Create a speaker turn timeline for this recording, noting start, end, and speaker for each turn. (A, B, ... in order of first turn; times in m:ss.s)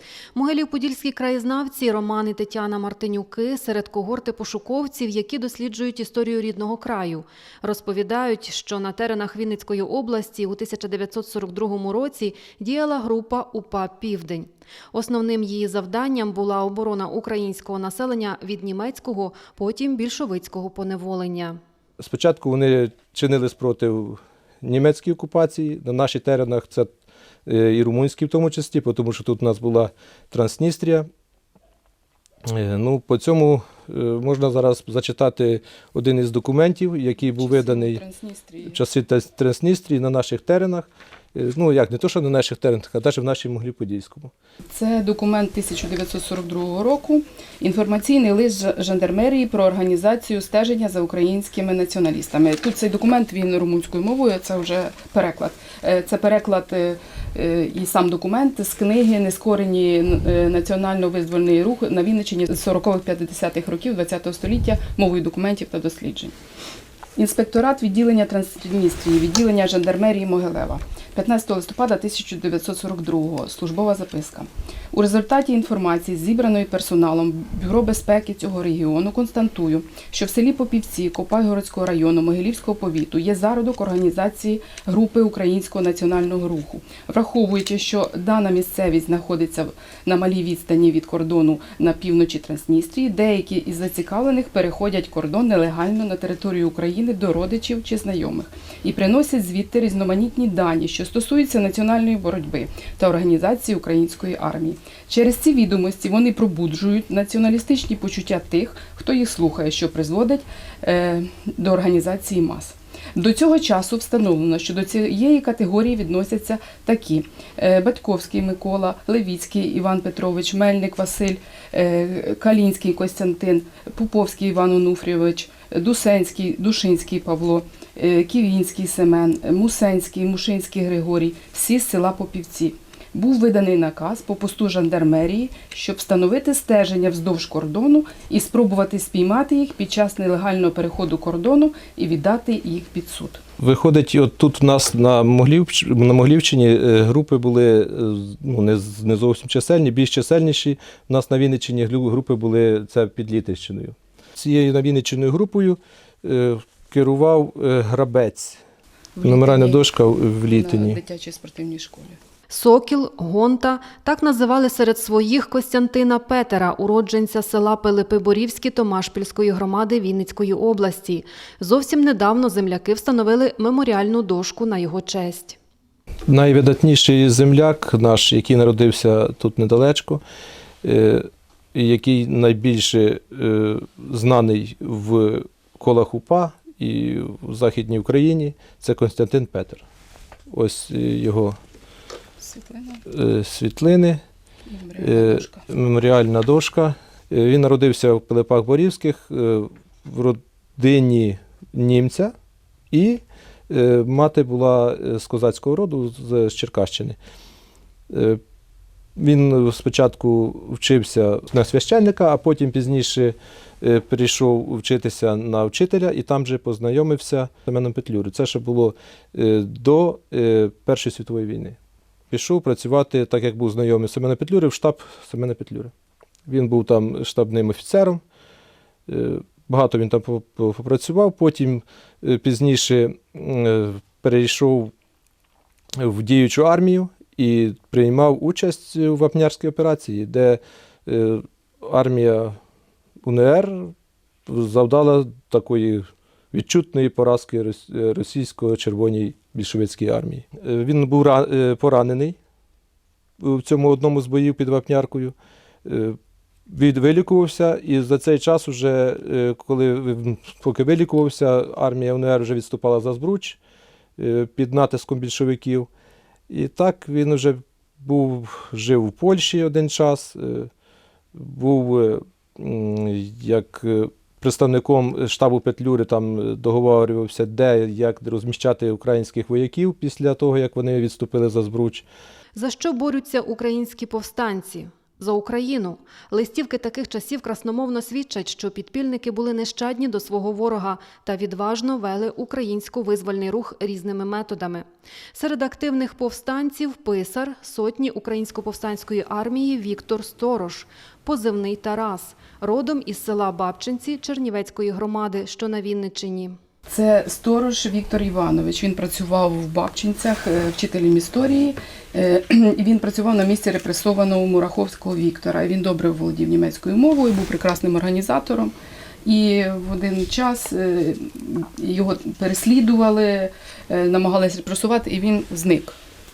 0:00.3-0:21.6 A
0:22.0-0:26.9 B
0:27.4-0:31.1 B
0:32.5-0:38.0 B
0:37.2-0:38.8 C
0:38.6-0:44.3 B
0:44.7-1:06.3 C
1:07.2-2:23.4 C
2:23.6-2:38.6 B
2:39.2-2:39.8 C
2:39.2-2:41.0 B
2:40.5-2:42.2 C
2:42.5-2:55.6 A
2:56.3-3:00.2 B
3:00.8-3:09.8 B
3:10.5-3:11.6 B
3:12.4-3:13.0 C
3:13.1-3:14.2 B
3:14.7-3:15.6 C
3:15.0-3:22.3 B
3:22.9-3:27.2 B
3:28.1-3:28.4 B
3:29.2-3:41.8 B
3:42.3-3:45.9 B
3:46.5-3:48.2 B
3:49.1-3:54.9 B
3:56.0-4:02.6 B
4:03.2-4:03.9 B
4:04.5-4:12.4 B
4:13.4-4:16.2 B
4:16.7-4:23.6 B
4:24.2-4:25.9 B
4:26.5-4:30.7 B
4:31.3-4:42.0 B
4:42.5-5:06.6 A
5:06.9-5:18.7 C
5:19.2-5:26.0 C